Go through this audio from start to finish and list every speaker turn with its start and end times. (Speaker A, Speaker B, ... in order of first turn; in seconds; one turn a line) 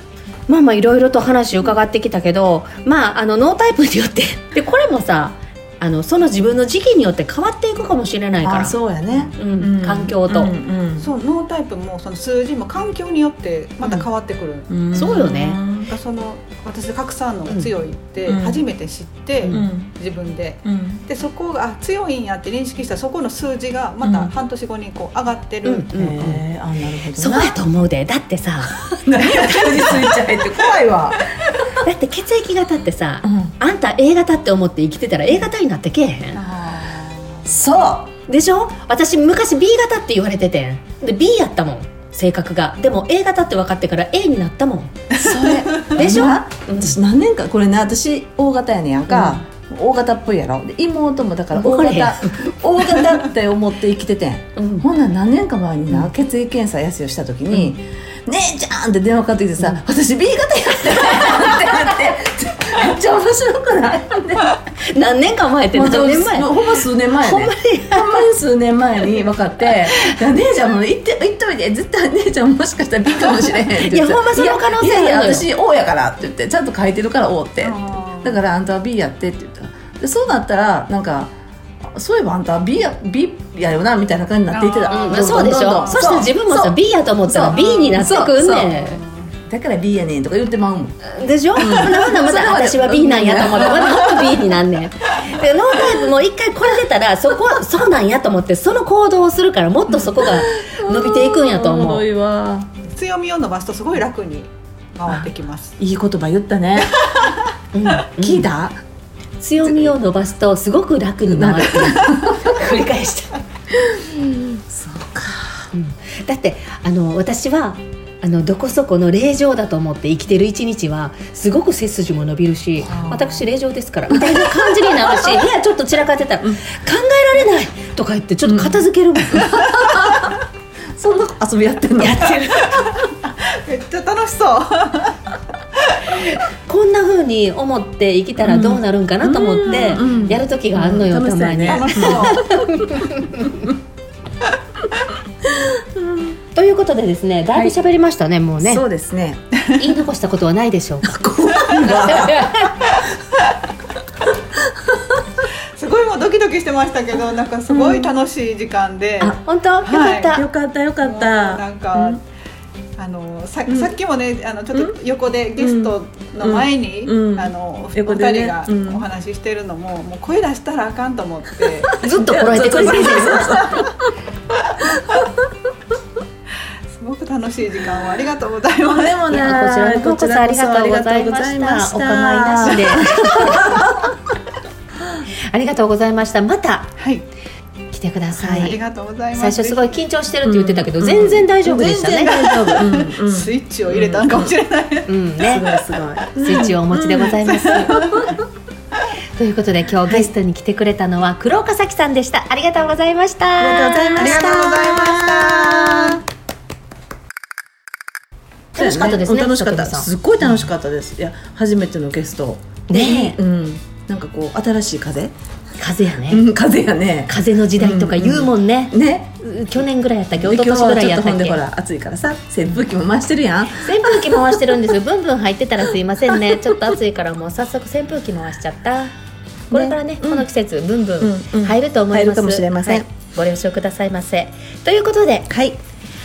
Speaker A: 0.5-8.8
Speaker B: 8.4-11.1
Speaker A: 9.3-10.5
Speaker C: 11.0-14.8
Speaker B: 14.7-15.9
Speaker A: 14.9-15.6
Speaker C: 15.7-25.9
Speaker B: 18.2-18.6
Speaker B: 19.5-19.9
Speaker B: 20.6-21.0
Speaker B: 24.0-24.3
Speaker A: 25.6-26.4
Speaker B: 25.9-27.6
Speaker A: 27.0-28.9
Speaker B: 28.9-31.2
Speaker C: 29.2-31.5
Speaker A: 31.8-36.4
Speaker B: 33.2-33.5
Speaker C: 36.3-37.5
Speaker B: 37.5-38.1
Speaker A: 38.3-45.1
Speaker C: 45.1-46.1
Speaker B: 45.2-64.5
Speaker A: 46.0-47.0
Speaker A: 49.1-49.4
Speaker A: 51.5-52.5
Speaker A: 54.5-54.9
Speaker A: 60.9-61.8
Speaker A: 64.7-68.3
Speaker B: 65.7-81.3
Speaker A: 69.7-70.2
Speaker A: 73.3-75.5
Speaker C: 77.6-78.4
Speaker B: 81.9-86.8
Speaker C: 84.5-86.1
Speaker A: 84.9-89.0
Speaker B: 87.3-88.7
Speaker C: 87.5-89.3
Speaker B: 89.5-90.9
Speaker A: 91.0-102.1
Speaker B: 91.5-94.6
Speaker B: 100.0-102.7
Speaker C: 102.8-105.8
Speaker B: 105.8-106.9
Speaker C: 106.8-107.5
Speaker A: 107.7-108.5
Speaker B: 108.1-108.8
Speaker A: 109.4-113.3
Speaker B: 109.6-110.0
Speaker B: 111.3-112.5
Speaker B: 113.7-115.7
Speaker A: 115.7-129.4
Speaker C: 122.8-123.2
Speaker B: 122.8-123.4
Speaker B: 124.1-125.4
Speaker B: 128.4-130.4
Speaker C: 129.4-130.4
Speaker B: 130.9-132.5
Speaker A: 132.0-132.7
Speaker C: 132.6-135.2
Speaker C: 135.7-136.2
Speaker A: 136.1-143.7
Speaker B: 138.4-142.6
Speaker C: 141.7-142.5
Speaker B: 145.4-146.3
Speaker A: 146.5-148.8
Speaker B: 148.6-149.4
Speaker C: 149.5-149.8
Speaker A: 149.7-151.2
Speaker B: 151.0-152.7
Speaker C: 151.4-152.0
Speaker A: 151.8-152.8
Speaker C: 152.8-153.7
Speaker B: 154.6-155.2
Speaker C: 155.8-160.4
Speaker B: 157.7-158.1
Speaker A: 159.4-160.5
Speaker B: 160.3-162.2
Speaker C: 161.0-162.2
Speaker C: 163.0-172.0
Speaker B: 163.7-163.9
Speaker B: 165.6-169.0
Speaker B: 171.9-174.1
Speaker A: 172.0-173.6
Speaker C: 172.7-173.9
Speaker C: 174.5-175.3
Speaker B: 174.9-175.3
Speaker C: 176.9-179.3
Speaker B: 178.9-184.1
Speaker A: 179.3-183.9
Speaker A: 185.5-186.9
Speaker C: 187.0-187.2
Speaker A: 187.9-188.8
Speaker C: 188.3-190.0
Speaker A: 189.3-192.7
Speaker B: 190.4-194.5
Speaker C: 192.1-195.1
Speaker A: 195.1-195.7
Speaker B: 195.4-197.3
Speaker A: 196.3-198.0
Speaker C: 197.3-198.4
Speaker A: 199.3-205.1
Speaker B: 203.6-206.2
Speaker C: 204.2-206.2
Speaker A: 208.7-210.1
Speaker B: 208.7-215.3
Speaker A: 212.9-213.4
Speaker A: 215.8-216.5
Speaker B: 216.3-219.4
Speaker A: 217.3-221.6
Speaker B: 220.4-224.6
Speaker A: 223.7-229.1
Speaker B: 229.7-230.5
Speaker A: 229.7-235.7
Speaker B: 231.2-233.1